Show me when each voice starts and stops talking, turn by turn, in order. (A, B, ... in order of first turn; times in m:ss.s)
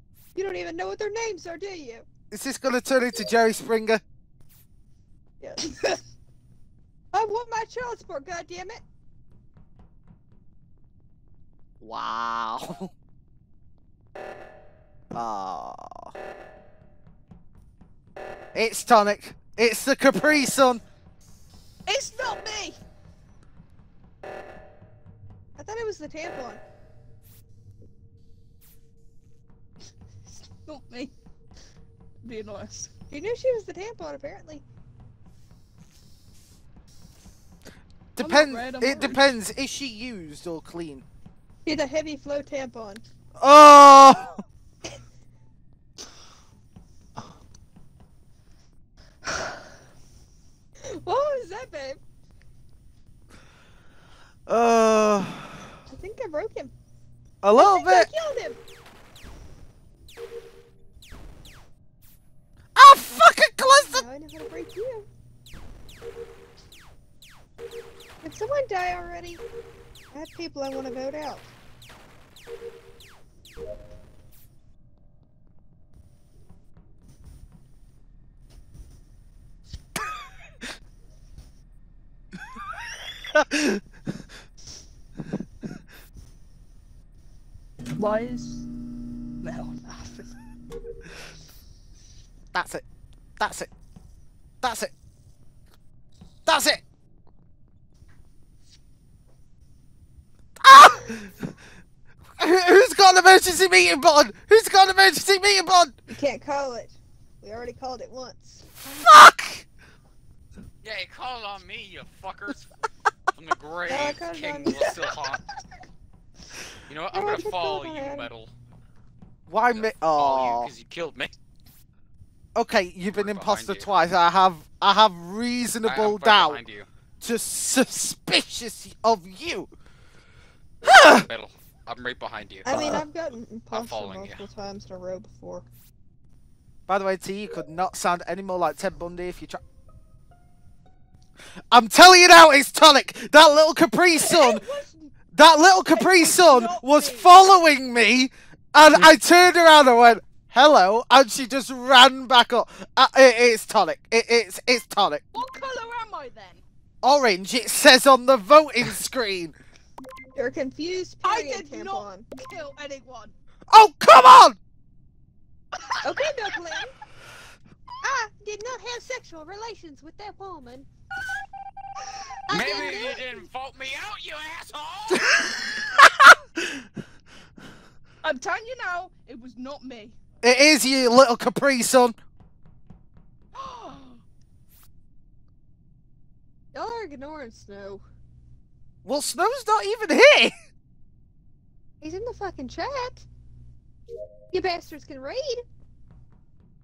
0:00.4-0:02.1 A
0:02.3-0:04.0 B
0:07.1-0:08.8 A
0:11.8-0:12.9 B
0:15.1-0:16.1 B
0:18.5-0:20.8 B
0:21.9-0:22.8 C
0:25.6-0:26.6 A
0:30.3-0:31.1 C
0:32.2-0:32.9 C
0:33.1-0:34.6 A
0:38.2-0:41.0 B
0:38.2-0:39.3 C
0:41.6-0:43.0 A
0:43.4-0:44.4 B
0:50.9-0:52.0 A
0:54.5-0:55.6 B
0:55.9-0:56.7 A
0:57.4-0:58.1 B
0:57.5-0:58.6 A
1:02.8-1:04.0 B
1:03.8-1:05.1 A
1:08.2-1:09.4 A
1:10.1-1:11.5 A
1:23.3-1:23.8 B
1:28.0-1:28.7 C
1:29.4-1:30.3 C
1:32.5-1:32.8 B
1:33.4-1:33.7 B
1:34.6-1:34.9 B
1:36.5-1:36.8 B
1:40.6-1:41.5 B
1:42.4-1:46.0 B
1:46.1-1:48.8 A
1:48.8-1:49.7 B
1:50.8-1:52.7 D
1:53.3-1:55.4 D
1:53.9-1:54.8 A
1:56.9-1:58.5 D
1:57.1-1:58.3 A
1:59.5-2:00.7 B
1:59.7-2:01.3 D
2:02.6-2:06.6 B
2:03.1-2:03.9 D
2:05.8-2:06.9 D
2:07.2-2:09.7 B
2:10.8-2:11.3 B
2:10.9-2:12.9 D
2:12.6-2:15.7 A
2:12.7-2:13.0 B
2:13.7-2:14.4 D
2:16.9-2:19.6 B
2:21.7-2:24.6 B
2:24.2-2:25.1 C
2:25.3-2:35.2 B
2:25.9-2:27.4 C
2:35.3-2:36.6 C
2:37.0-2:39.6 B
2:40.4-2:42.3 A
2:41.2-2:43.4 C
2:43.7-2:44.6 B
2:46.0-2:46.9 A
2:48.0-2:50.9 A
2:52.5-2:53.4 A
2:52.5-2:55.8 D
2:52.6-2:53.2 C
2:55.9-2:56.3 B
2:58.2-3:00.2 C
3:00.4-3:02.2 B
3:03.5-3:04.2 C
3:06.7-3:08.0 A
3:09.0-3:10.5 B
3:12.0-3:13.3 A
3:14.5-3:15.6 A